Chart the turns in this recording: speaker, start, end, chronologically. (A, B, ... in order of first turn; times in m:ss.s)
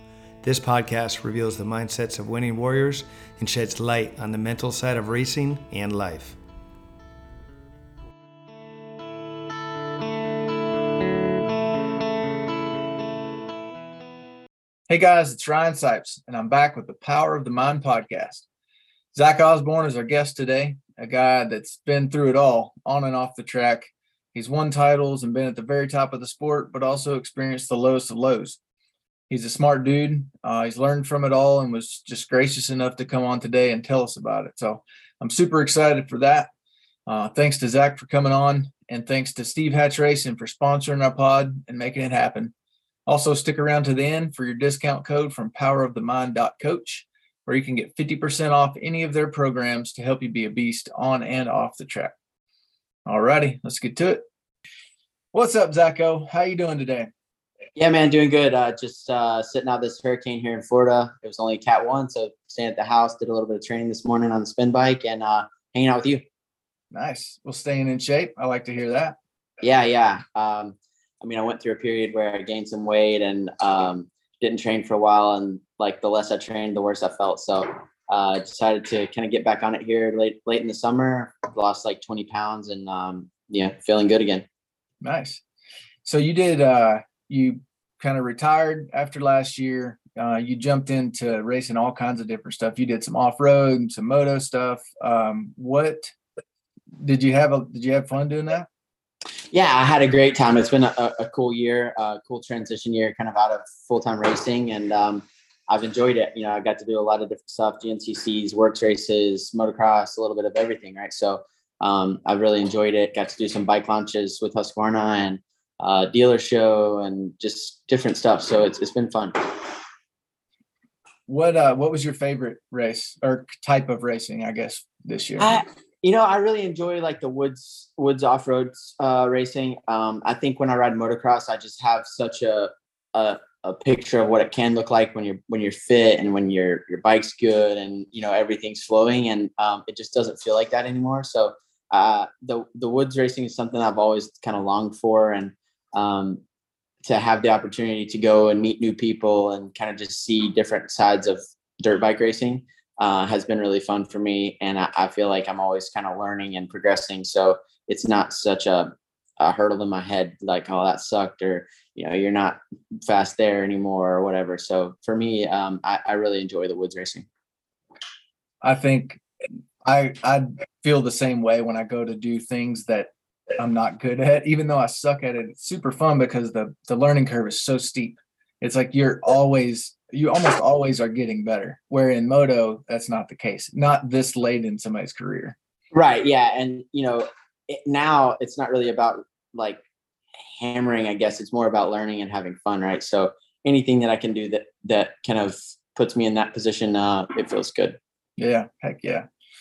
0:00.4-0:06.4 A
0:14.9-0:18.5 B
0:19.1-0:28.6 B
0:29.3-0:36.5 B
0:37.1-0:42.5 B
0:43.1-0:52.1 B
0:53.1-0:54.2 B
0:55.3-0:57.1 B
0:57.8-1:06.2 C
1:06.9-1:09.2 B
1:09.6-1:24.5 C
1:25.0-1:25.4 B
1:26.0-1:36.1 B
1:37.0-1:38.7 B
1:39.5-1:59.3 C
2:01.3-2:05.6 B
2:05.4-2:26.4 C
2:27.0-2:47.3 C
2:48.6-2:49.2 B
2:49.8-3:05.6 B
3:05.9-3:09.8 C
3:10.4-3:18.0 C
3:18.4-3:19.3 B